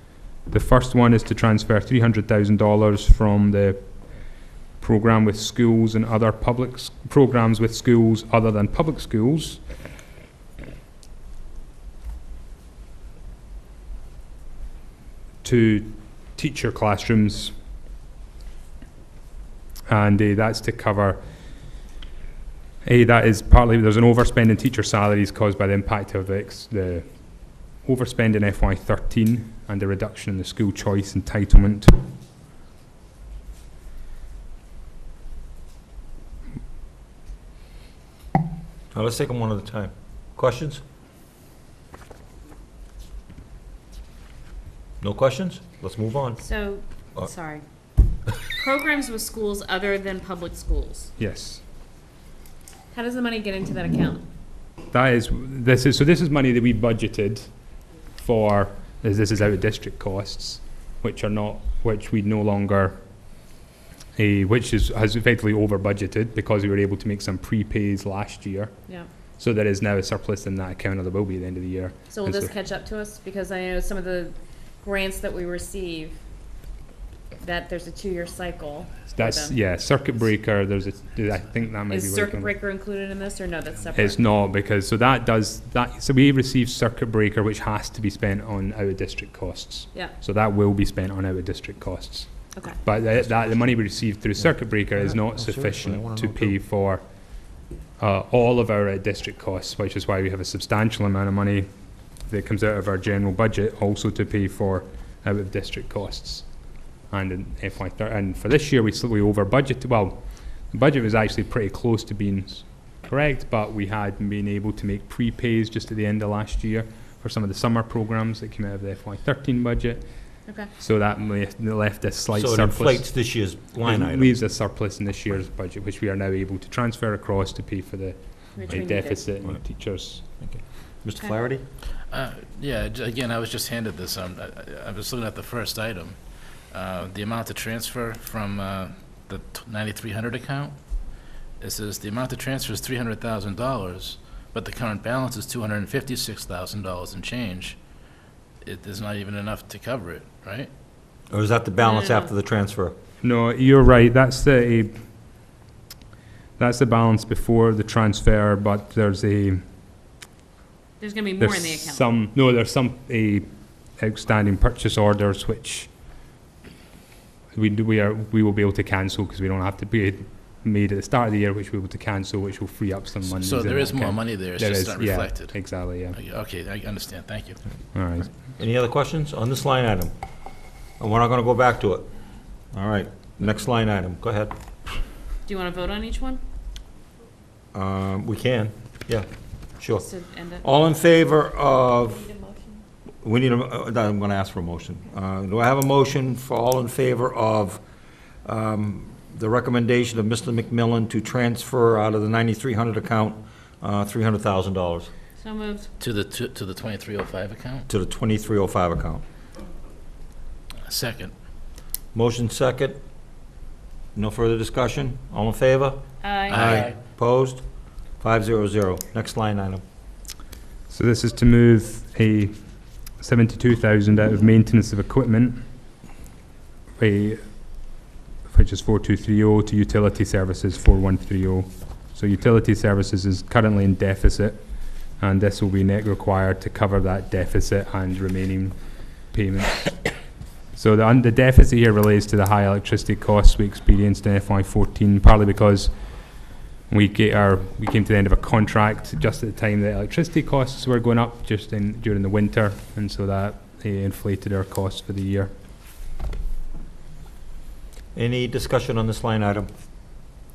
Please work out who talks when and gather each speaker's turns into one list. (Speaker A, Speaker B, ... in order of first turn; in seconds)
Speaker A: 0.4-9.6, 15.4-17.6, 19.9-21.2, 22.8-31.9, 51.2-51.6, 54.9-57.5, 58.2-63.0, 64.2-68.7, 69.4-72.5, 79.1-82.5, 83.9-97.0, 98.0-101.7, 102.2-123.2, 123.8-130.2, 153.2-155.0, 156.6-159.6, 161.4-165.9, 167.5-176.2, 177.9-178.3, 220.9-225.6, 227.0-240.1, 240.7-255.5
Speaker B: 38.9-40.8, 45.0-46.4, 95.0-96.5, 122.3-124.3, 130.4-131.6, 151.3-152.9, 178.5-180.1, 181.0-182.0, 182.7-184.5, 187.7-189.2, 189.8-190.1, 190.6-192.3, 193.2-197.8, 198.4-205.1, 207.9-209.2, 212.1-213.0, 214.1-217.6, 218.2-219.8, 258.1-259.7
Speaker C: 46.4-47.6, 48.6-51.1, 52.9-54.2, 72.1-76.2, 77.4-79.5, 81.9-84.2, 128.5-129.2, 151.8-152.3, 161.0-162.1, 185.4-186.4, 189.9-190.6, 192.2-192.8, 205.4-205.9, 216.2-216.7
Speaker D: 132.1-140.8, 141.6-147.8, 148.6-150.7, 173.2-177.6, 206.0-207.8, 210.8-211.3, 216.5-216.9